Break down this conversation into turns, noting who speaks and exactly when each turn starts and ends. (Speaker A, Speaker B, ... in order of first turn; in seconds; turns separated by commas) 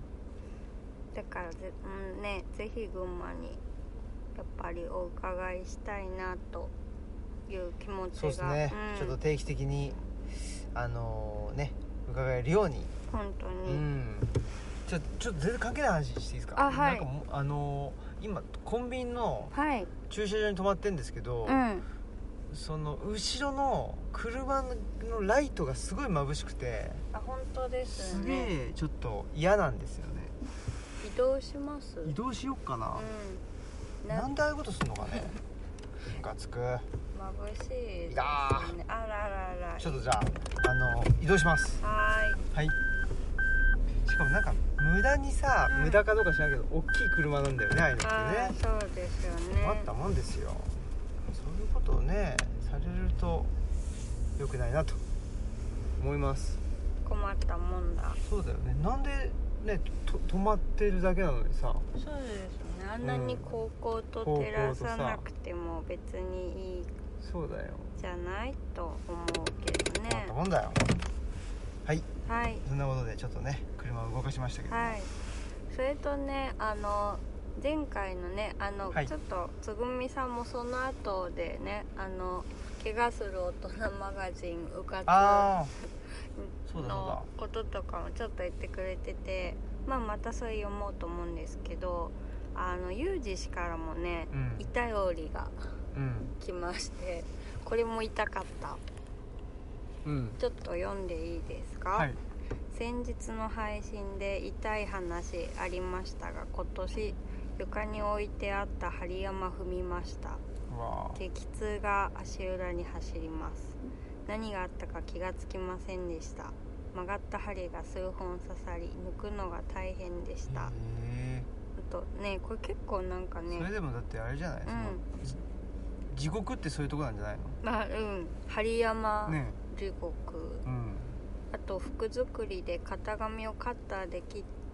Speaker A: 1.1-3.6, Speaker A: 4.3-6.7, Speaker A: 7.5-9.2, Speaker B: 8.1-10.0, Speaker B: 10.7-12.9, Speaker A: 13.1-13.8, Speaker B: 13.7-19.5, Speaker A: 16.5-17.1, Speaker A: 19.5-19.9, Speaker B: 20.1-21.6, Speaker A: 21.4-21.9, Speaker B: 22.5-27.0, Speaker A: 27.1-28.5, Speaker B: 27.9-30.4, Speaker A: 31.0-32.1, Speaker B: 32.0-33.1, Speaker A: 32.9-33.4, Speaker A: 34.0-34.3, Speaker B: 34.1-35.3, Speaker B: 36.0-36.9, Speaker A: 37.1-40.0, Speaker B: 38.1-38.8, Speaker B: 39.8-41.8, Speaker A: 41.8-42.4, Speaker B: 44.0-48.5, Speaker A: 45.7-46.0, Speaker A: 48.0-49.9, Speaker B: 49.6-53.5, Speaker B: 54.4-55.0, Speaker B: 56.0-56.6, Speaker A: 57.0-58.2, Speaker B: 58.2-61.9, Speaker A: 61.9-66.9, Speaker B: 63.0-63.6, Speaker B: 64.2-65.2, Speaker B: 67.2-68.0, Speaker A: 68.0-70.3, Speaker B: 70.0-71.0, Speaker A: 72.2-72.6, Speaker B: 72.6-75.0, Speaker A: 74.7-75.1, Speaker A: 75.7-85.5, Speaker B: 85.0-85.7, Speaker A: 86.3-95.8, Speaker B: 86.7-87.3, Speaker B: 94.3-94.7, Speaker B: 95.9-96.3, Speaker A: 96.4-98.8, Speaker B: 100.0-100.4, Speaker A: 100.4-102.1, Speaker A: 102.7-110.4, Speaker B: 110.7-111.2, Speaker A: 111.2-120.7, Speaker B: 120.5-121.5, Speaker A: 121.7-123.7, Speaker B: 123.5-125.4, Speaker A: 124.7-125.0, Speaker B: 126.1-127.6, Speaker A: 127.6-130.6, Speaker B: 129.3-129.6, Speaker B: 130.6-131.1, Speaker A: 131.5-134.5